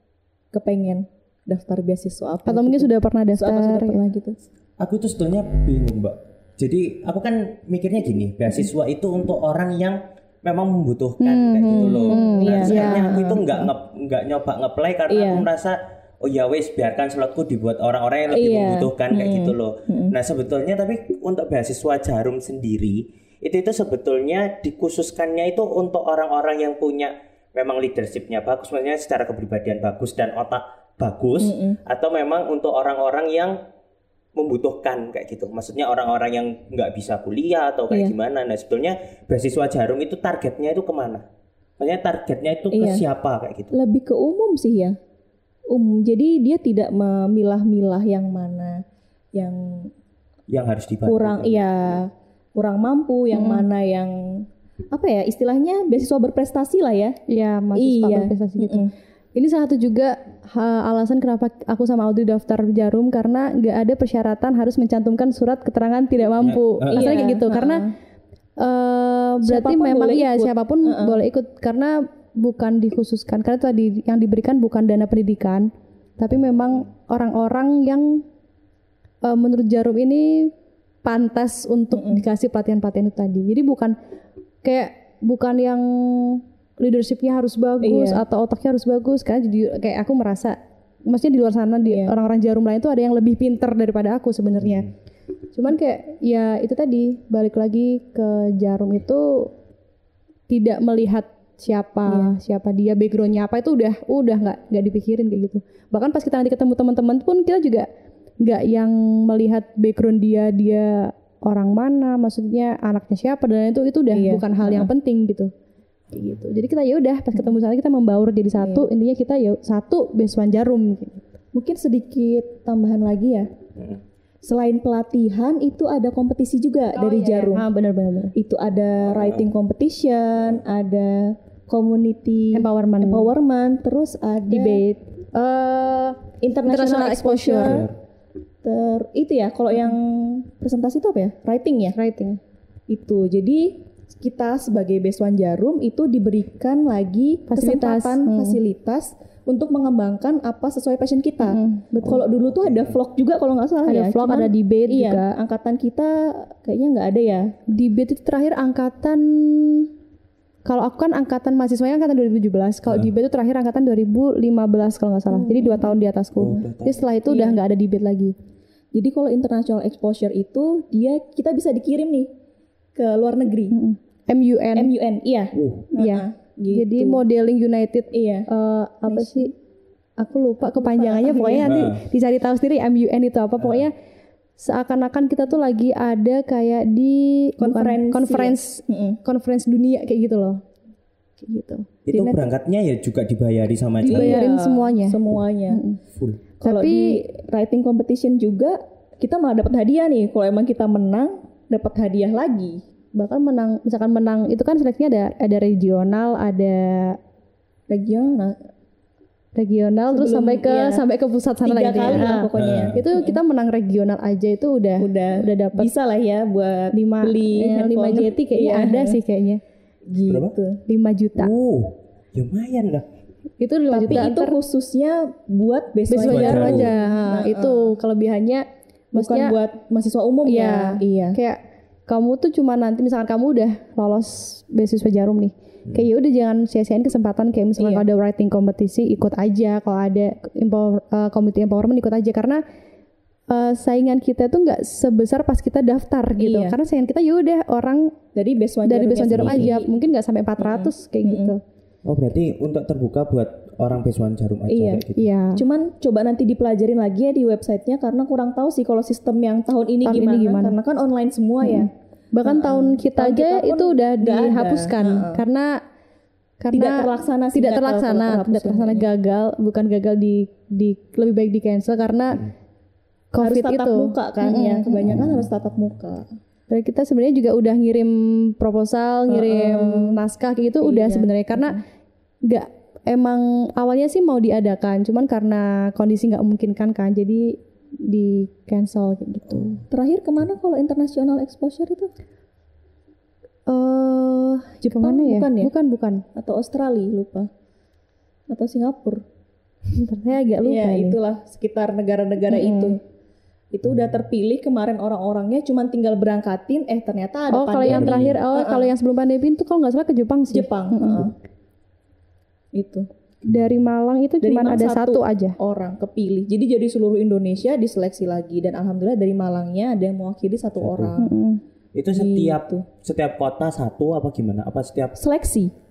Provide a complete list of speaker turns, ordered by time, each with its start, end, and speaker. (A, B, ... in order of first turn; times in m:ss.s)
0:00.5-0:04.4 A
0:02.5-0:04.0 B
0:04.8-0:33.6 C
0:11.2-0:13.1 B
0:11.8-0:13.7 A
0:15.1-0:15.5 A
0:18.3-0:20.2 A
0:31.4-0:31.8 A
0:34.4-0:41.3 C
0:41.8-0:43.8 C
0:42.7-0:43.0 A
0:43.7-0:45.0 A
0:45.7-0:48.8 A
0:49.3-0:49.9 A
0:50.5-0:51.6 C
0:51.1-0:57.2 A
0:53.3-0:53.6 B
0:57.3-0:58.8 B
0:57.7-0:58.9 A
0:59.4-1:07.8 B
1:06.4-1:07.3 C
1:06.9-1:07.9 A
1:08.6-1:18.2 B
1:09.4-1:11.2 A
1:19.2-1:20.5 B
1:21.0-1:24.0 B
1:21.9-1:22.2 A
1:24.6-1:30.6 B
1:27.8-1:28.2 A
1:31.1-1:34.9 B
1:31.8-1:32.1 A
1:34.6-1:34.9 C
1:35.5-1:39.5 B
1:40.5-1:47.9 B
1:42.1-1:42.3 A
1:48.4-1:55.5 B
1:54.1-1:54.9 A
1:56.1-2:01.3 B
1:58.6-1:58.9 A
2:01.5-2:03.5 A
2:04.4-2:07.6 A
2:07.0-2:08.3 B
2:08.4-2:14.8 A
2:09.0-2:09.5 C
2:12.5-2:13.3 B
2:14.5-2:17.8 B
2:16.4-2:17.9 A
2:17.6-2:18.0 C
2:18.6-2:22.0 A
2:22.0-2:22.4 B
2:22.9-2:37.5 A
2:27.5-2:28.6 B
2:31.4-2:32.2 B
2:32.0-2:33.0 C
2:33.9-2:35.3 B
2:37.7-2:39.9 B
2:40.7-2:48.4 B
2:45.3-2:46.0 A
2:46.4-2:47.0 C
2:47.3-2:47.6 A
2:48.9-2:52.3 A
2:53.0-2:53.7 A
2:53.7-2:54.9 B
2:54.8-2:57.2 A
2:55.6-2:55.9 C
2:55.9-2:59.5 B
2:58.1-2:58.5 A
2:59.1-2:59.5 A
3:00.2-3:03.9 B
3:00.8-3:01.8 A
3:01.6-3:02.0 C
3:03.6-3:03.9 C
3:04.6-3:10.6 B
3:07.6-3:09.2 A
3:11.4-3:11.9 B
3:12.1-3:14.4 C
3:12.1-3:12.5 A
3:14.0-3:15.2 B
3:14.1-3:15.8 A
3:15.7-3:16.0 B
3:16.1-3:16.4 C
3:16.6-3:22.8 A
3:16.6-3:17.2 B
3:23.2-3:27.2 B
3:27.9-3:28.6 A
3:29.6-3:35.9 B
3:30.1-3:31.0 A
3:31.6-3:33.4 A
3:32.6-3:33.0 C
3:35.0-3:39.2 A
3:36.9-3:39.6 B
3:40.1-3:40.8 A
3:40.3-3:40.6 C
3:40.9-3:41.5 B
3:41.4-3:43.1 C
3:43.6-3:44.6 B
3:43.9-3:47.9 A
3:46.1-3:49.6 B
3:46.2-3:46.9 C
3:49.2-3:51.4 A
3:50.5-4:02.6 B
3:57.8-3:58.0 A
4:03.5-4:08.1 B
4:06.4-4:06.8 A
4:08.4-4:09.9 A
4:08.9-4:11.6 B
4:09.3-4:09.7 C
4:10.6-4:11.5 A
4:12.0-4:15.3 C
4:14.7-4:15.0 A
4:15.2-4:15.6 B
4:15.6-4:21.9 A
4:20.1-4:20.8 B
4:21.6-4:25.7 B
4:22.4-4:25.4 A
4:26.6-4:32.5 B
4:26.7-4:29.1 A
4:33.3-4:35.2 B
4:33.4-4:36.3 A
4:35.1-4:35.5 C
4:36.7-4:41.8 B
4:39.3-4:40.2 A
4:40.8-4:41.8 A
4:42.5-4:49.8 B
4:49.9-4:52.1 A
4:53.7-4:56.2 B
4:54.8-4:55.7 A
4:56.3-4:57.5 A
4:58.5-4:59.2 A
5:00.0-5:01.2 B
5:00.6-5:03.0 A
5:02.5-5:03.0 B
5:03.7-5:08.9 A
5:07.5-5:11.3 B
5:07.9-5:08.4 C
5:10.5-5:11.3 A
5:12.7-5:13.1 A
5:13.4-5:15.6 B
5:13.5-5:13.8 C
5:14.4-5:21.3 A
5:20.8-5:21.2 C
5:21.2-5:21.6 B
5:22.0-5:25.2 C
5:22.1-5:22.9 A
5:25.2-5:25.7 A